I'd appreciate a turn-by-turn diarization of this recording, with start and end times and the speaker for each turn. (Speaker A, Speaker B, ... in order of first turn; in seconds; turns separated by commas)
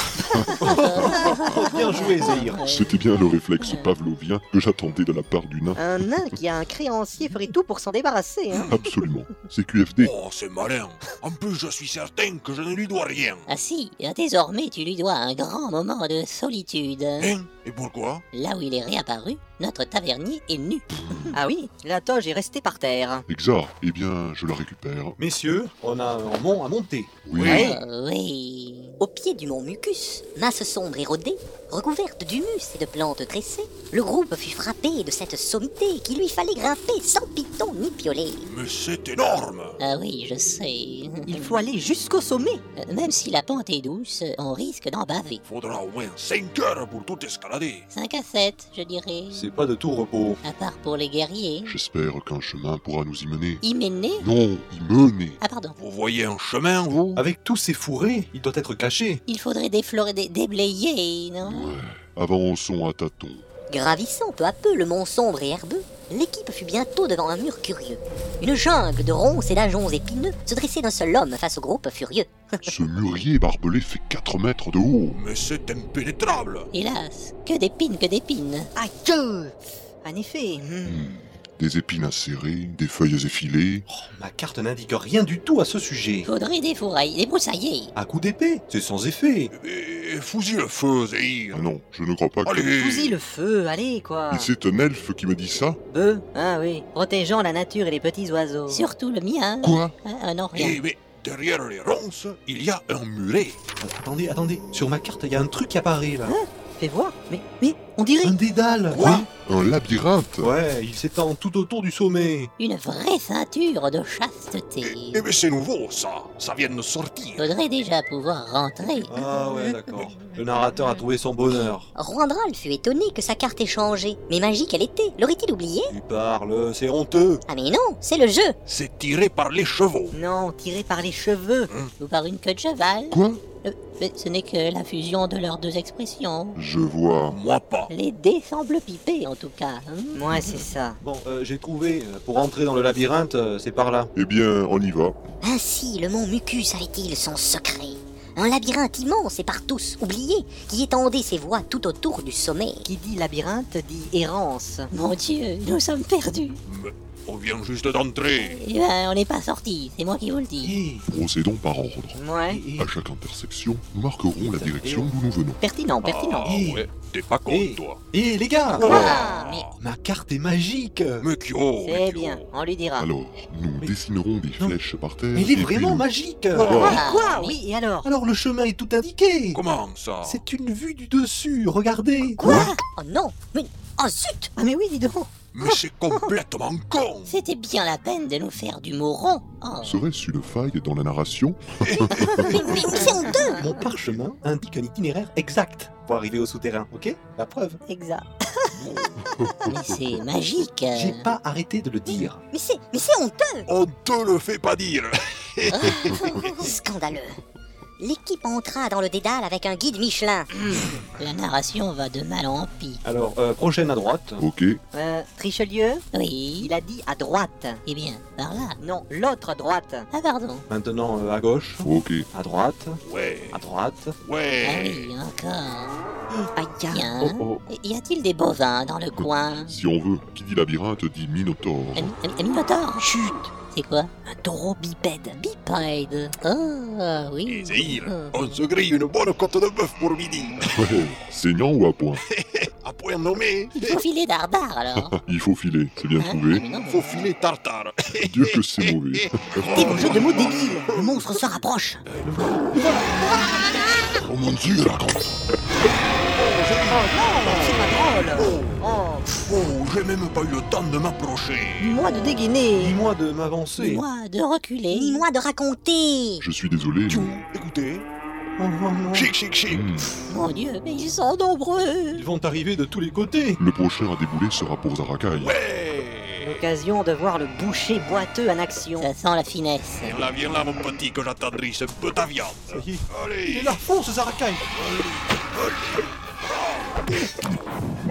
Speaker A: 0.6-3.0, Speaker B: 0.6-2.6, Speaker C: 2.6-6.0, Speaker A: 3.6-3.9, Speaker D: 5.8-8.7, Speaker E: 8.5-8.9, Speaker C: 8.7-10.1, Speaker E: 10.0-13.4, Speaker A: 13.5-17.3, Speaker E: 17.2-18.2, Speaker A: 18.3-21.3, Speaker C: 20.9-21.4, Speaker D: 21.3-23.3, Speaker C: 23.3-25.2, Speaker B: 25.2-27.3, Speaker C: 27.2-27.7, Speaker D: 27.4-27.8, Speaker A: 27.4-29.0, Speaker F: 29.0-38.5, Speaker E: 38.4-39.8, Speaker A: 39.8-41.6, Speaker D: 41.3-42.6, Speaker A: 42.8-45.4, Speaker E: 45.4-47.9, Speaker A: 47.9-49.4, Speaker B: 49.3-50.4, Speaker A: 50.4-51.8, Speaker C: 51.7-53.6, Speaker A: 53.6-54.2, Speaker C: 54.2-55.4, Speaker A: 55.4-55.8, Speaker E: 55.8-57.2, Speaker B: 57.2-59.2, Speaker A: 59.3-61.8, Speaker C: 61.4-63.5, Speaker F: 63.7-72.8, Speaker C: 72.6-75.2, Speaker E: 75.1-76.7, Speaker A: 76.7-78.7, Speaker D: 78.8-81.0, Speaker C: 80.8-83.9, Speaker B: 83.9-86.3, Speaker A: 86.2-87.9, Speaker B: 88.0-89.5, Speaker E: 89.5-91.7, Speaker C: 91.5-92.7, Speaker E: 92.5-93.2, Speaker D: 92.7-94.5, Speaker C: 94.3-95.8, Speaker D: 95.9-98.9, Speaker A: 98.7-100.8, Speaker C: 99.6-99.9, Speaker E: 100.5-103.6, Speaker B: 103.8-106.4, Speaker D: 106.3-108.4, Speaker B: 108.2-109.3, Speaker E: 108.9-109.3, Speaker C: 109.4-110.5, Speaker B: 110.4-112.5, Speaker A: 112.6-115.2, Speaker E: 114.8-117.5, Speaker A: 117.4-119.1, Speaker B: 119.0-121.9, Speaker F: 122.0-125.9, Speaker B: 125.9-127.4, Speaker F: 127.5-128.6, Speaker E: 128.7-130.2, Speaker D: 130.1-131.7, Speaker A: 132.0-136.6, Speaker C: 133.1-133.4, Speaker C: 136.6-137.4, Speaker E: 137.3-137.9, Speaker A: 137.9-140.6, Speaker D: 140.2-141.0, Speaker B: 141.0-144.1, Speaker C: 144.1-145.2, Speaker F: 145.4-152.8, Speaker D: 152.8-154.9, Speaker A: 154.9-156.6, Speaker E: 156.7-158.6, Speaker A: 158.4-160.8, Speaker B: 160.6-161.1, Speaker C: 161.1-165.6, Speaker D: 162.2-162.6, Speaker B: 162.5-162.9, Speaker B: 164.3-165.1, Speaker D: 165.6-166.5, Speaker E: 166.0-168.0, Speaker B: 166.4-166.9, Speaker B: 167.5-169.2, Speaker E: 168.7-169.8, Speaker A: 168.8-169.7, Speaker D: 168.9-169.6, Speaker B: 169.8-171.3, Speaker E: 171.2-172.5, Speaker D: 171.8-173.1, Speaker C: 173.0-176.1, Speaker B: 175.3-176.8, Speaker E: 176.5-177.2, Speaker C: 176.7-177.0, Speaker D: 176.8-178.1, Speaker A: 176.8-177.6, Speaker B: 178.0-179.6, Speaker E: 179.5-180.4, Speaker B: 180.2-182.6, Speaker A: 182.5-182.8, Speaker F: 182.6-184.5, Speaker D: 184.6-186.3, Speaker E: 185.5-187.3, Speaker A: 187.3-190.0, Speaker C: 189.8-192.7, Speaker E: 191.8-193.0, Speaker B: 192.6-197.8, Speaker F: 192.7-193.5, Speaker D: 192.9-193.7, Speaker D: 197.9-199.4, Speaker C: 199.4-200.2, Speaker A: 199.7-201.3, Speaker B: 200.9-202.4, Speaker F: 202.5-203.7, Speaker E: 203.7-206.2, Speaker F: 205.8-207.4, Speaker F: 208.0-210.5, Speaker A: 210.9-213.0, Speaker B: 213.0-214.4, Speaker C: 214.4-214.8, Speaker D: 214.9-216.1, Speaker A: 216.1-216.7, Speaker D: 216.6-217.8, Speaker A: 217.8-218.8, Speaker D: 218.8-220.1, Speaker A: 220.1-220.7, Speaker B: 220.7-224.2, Speaker C: 221.8-222.3, Speaker E: 223.0-223.6, Speaker E: 224.2-225.1, Speaker A: 224.6-226.0, Speaker D: 226.6-227.1, Speaker A: 226.9-229.7, Speaker B: 227.2-227.6, Speaker C: 229.2-232.1, Speaker A: 231.9-234.1, Speaker D: 233.0-233.4, Speaker D: 234.3-235.4, Speaker A: 235.3-238.4, Speaker E: 237.5-240.8, Speaker C: 240.7-242.2, Speaker E: 242.2-244.0, Speaker A: 243.8-245.2, Speaker C: 245.0-246.7, Speaker A: 246.2-247.0, Speaker E: 246.9-251.6, Speaker C: 248.2-250.3, Speaker D: 249.7-252.1, Speaker B: 252.2-253.3, Speaker C: 254.2-255.4, Speaker E: 256.4-262.0, Speaker D: 256.9-259.3, Speaker D: 261.8-263.0, Speaker B: 262.7-264.1, Speaker A: 263.8-265.2, Speaker F: 264.9-266.4, Speaker C: 266.4-267.4, Speaker E: 267.1-268.1, Speaker B: 268.6-269.3, Speaker E: 269.1-270.2, Speaker C: 269.7-270.1, Speaker A: 270.3-272.2, Speaker B: 272.1-273.6, Speaker C: 273.6-275.5, Speaker E: 275.4-276.6, Speaker D: 276.4-279.1, Speaker A: 279.0-280.2, Speaker E: 280.0-283.8, Speaker B: 282.7-284.7, Speaker E: 284.7-287.6